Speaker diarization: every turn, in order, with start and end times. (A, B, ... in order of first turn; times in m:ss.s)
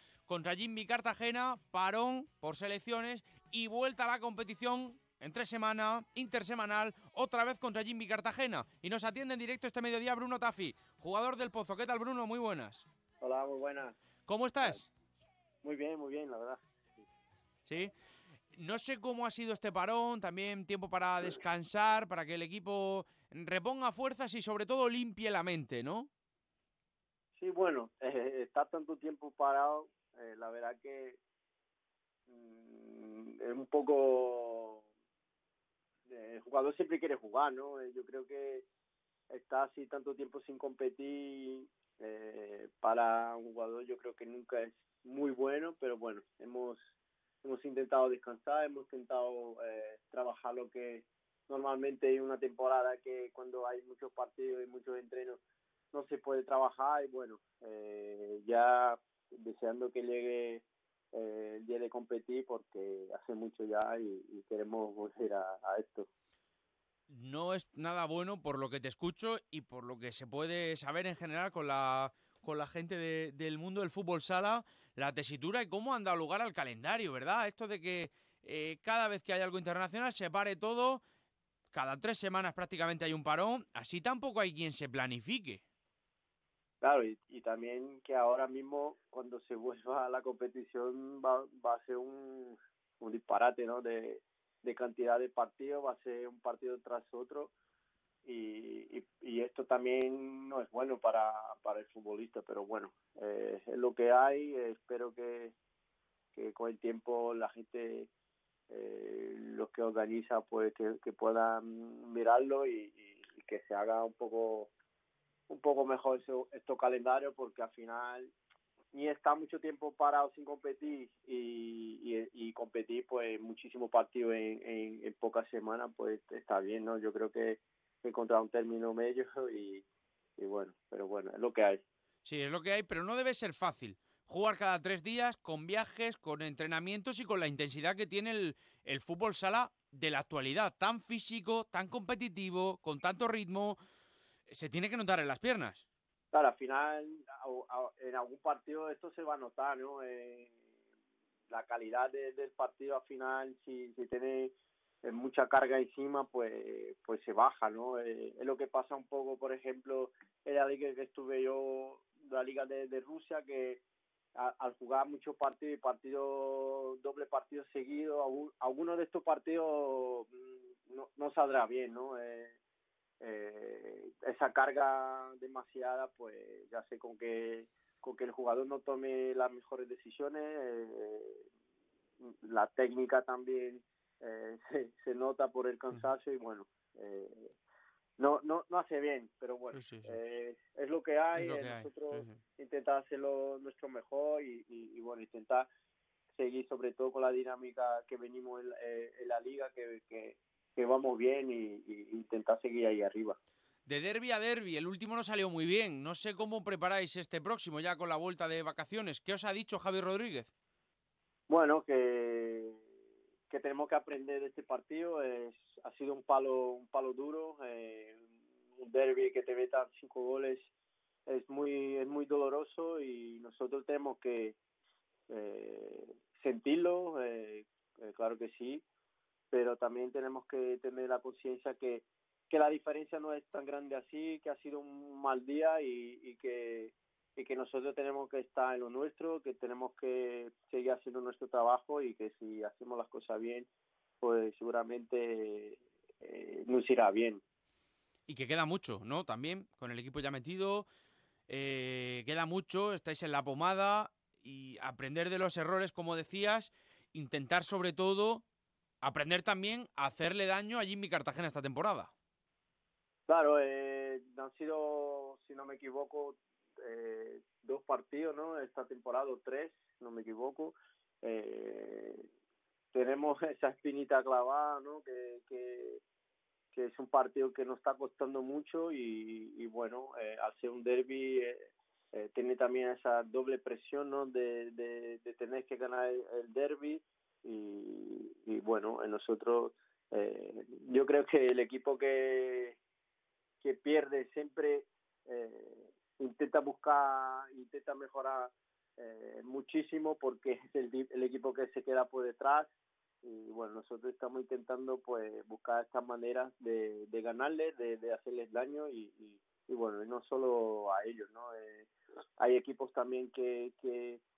0:00.3-0:12.8 A
0:13.2-0:14.0 B
0:14.3-0:14.9 A
0:15.6-0:16.6 B
0:17.6-0:17.9 A
0:18.5-0:26.1 A
0:27.4-0:31.2 B
0:32.3-0:34.8 B
0:36.1-0:38.6 B
0:39.3-0:46.9 B
0:47.4-0:55.4 B
0:55.9-1:06.1 B
1:07.1-1:21.0 A
1:21.7-1:25.6 A
1:26.8-1:37.5 B
1:38.2-1:45.6 B
1:46.3-1:48.1 B
1:48.7-1:54.7 B
1:55.5-1:58.3 B
1:58.9-2:09.8 B
2:10.4-2:11.8 B
2:12.2-2:23.8 A
2:24.5-2:25.8 A
2:26.3-2:30.6 B
2:31.5-2:43.8 B
2:44.4-2:52.6 B
2:53.2-3:01.5 B
3:02.2-3:07.5 B
3:08.2-3:15.7 B
3:09.7-3:10.2 A
3:11.3-3:12.4 A
3:16.3-3:23.4 B
3:23.9-3:30.5 A
3:31.5-3:32.8 B
3:33.5-3:38.3 B
3:38.8-3:40.7 B
3:41.3-3:44.6 B
3:45.3-3:48.8 B
3:49.5-4:03.7 B
4:04.2-4:07.4 B
4:08.3-4:10.8 A
4:11.5-4:18.4 A
4:19.0-4:22.1 A
4:23.3-4:32.2 B
4:32.9-4:36.0 B
4:36.7-4:52.8 B
4:53.6-5:02.7 B
5:03.2-5:14.2 B